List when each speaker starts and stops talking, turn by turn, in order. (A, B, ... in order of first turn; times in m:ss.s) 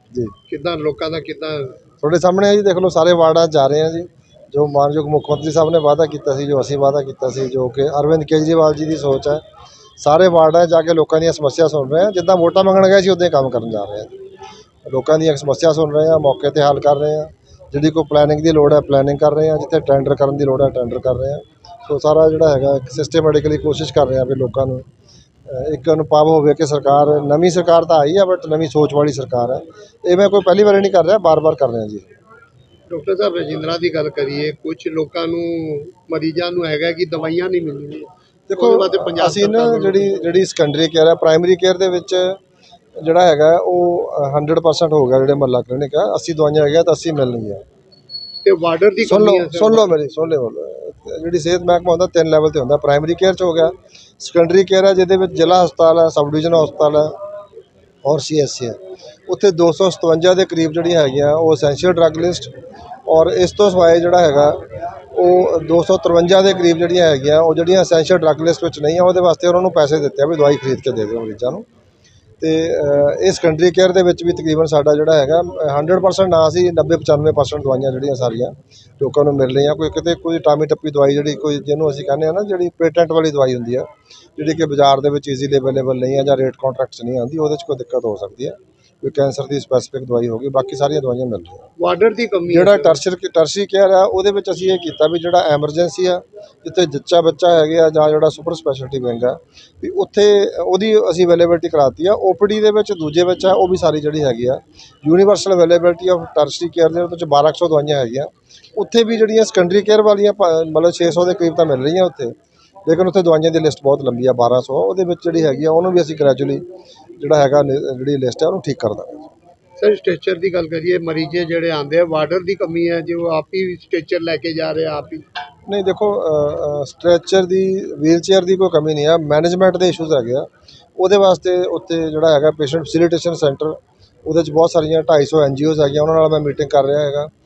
0:00.5-0:01.8 A
0:02.0-0:09.4 B
0:10.0-0:14.1 B
0:14.8-0:24.8 B
0:25.5-0:32.0 B
0:32.9-0:40.3 A
0:38.5-0:42.4 B
0:43.0-0:47.6 B
0:48.4-0:50.0 A
0:49.0-0:57.1 B
0:58.0-0:58.8 B
0:59.3-1:02.5 B
1:03.1-1:04.6 B
1:05.1-1:11.6 B
1:12.4-1:23.9 B
1:24.4-1:31.7 B
1:31.8-1:33.0 A
1:32.5-1:52.3 B
1:52.9-1:56.6 B
1:57.2-1:59.3 B
1:59.8-2:05.2 A
2:05.7-2:17.3 B